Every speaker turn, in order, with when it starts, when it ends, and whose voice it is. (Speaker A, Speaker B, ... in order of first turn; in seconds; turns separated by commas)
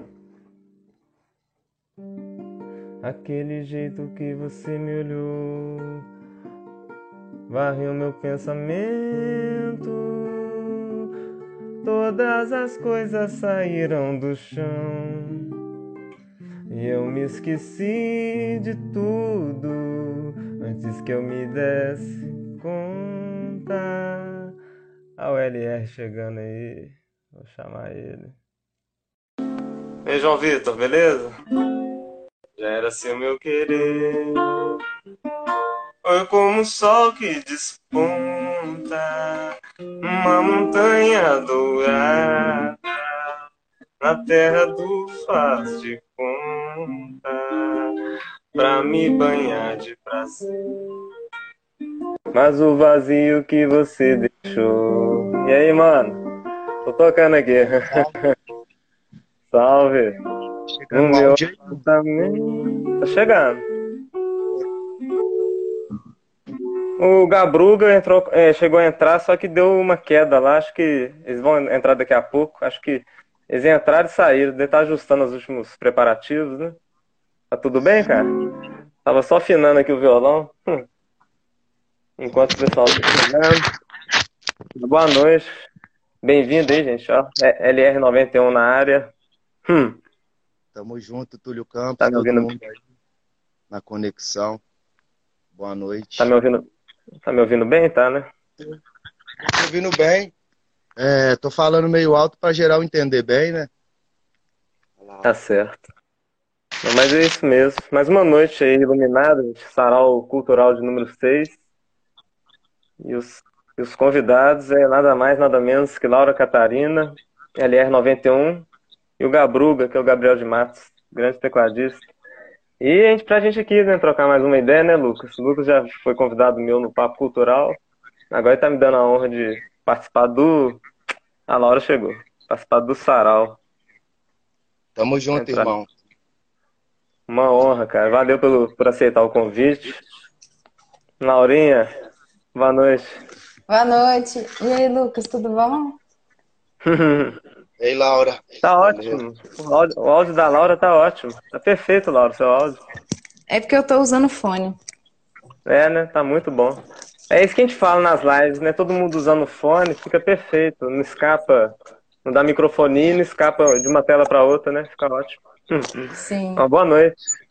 Speaker A: 3.0-6.0, Speaker A: 7.5-10.7, Speaker A: 11.8-15.5, Speaker A: 16.7-24.5, Speaker A: 25.2-28.4, Speaker A: 30.0-31.3, Speaker A: 32.6-34.6, Speaker A: 36.0-39.5, Speaker A: 40.0-42.8, Speaker A: 44.0-47.9, Speaker A: 48.5-50.5, Speaker A: 52.3-56.2, Speaker A: 56.8-58.3, Speaker A: 59.5-60.2, Speaker B: 60.7-61.8, Speaker A: 60.9-63.6, Speaker A: 67.0-76.8, Speaker A: 77.5-78.3, Speaker A: 79.0-80.8, Speaker A: 82.2-83.6, Speaker A: 84.8-85.7, Speaker A: 86.2-89.1, Speaker A: 89.7-90.0, Speaker B: 90.7-92.8, Speaker A: 92.0-92.5, Speaker B: 93.7-94.6, Speaker B: 95.5-96.3, Speaker A: 96.2-96.7, Speaker A: 97.2-98.3, Speaker B: 99.4-100.3, Speaker B: 101.0-103.7, Speaker B: 105.0-105.2, Speaker A: 105.2-105.8, Speaker A: 106.8-111.5, Speaker A: 113.0-118.7, Speaker A: 119.2-122.0, Speaker A: 122.8-127.8, Speaker A: 128.3-130.8, Speaker A: 131.5-133.6, Speaker B: 134.9-135.9, Speaker A: 135.3-135.7, Speaker A: 137.3-140.0, Speaker A: 141.2-141.9, Speaker A: 142.5-143.2, Speaker C: 143.7-146.0, Speaker A: 146.8-147.4, Speaker B: 147.8-149.2, Speaker A: 148.6-152.8, Speaker C: 153.5-154.8, Speaker A: 155.7-167.1, Speaker C: 166.1-166.6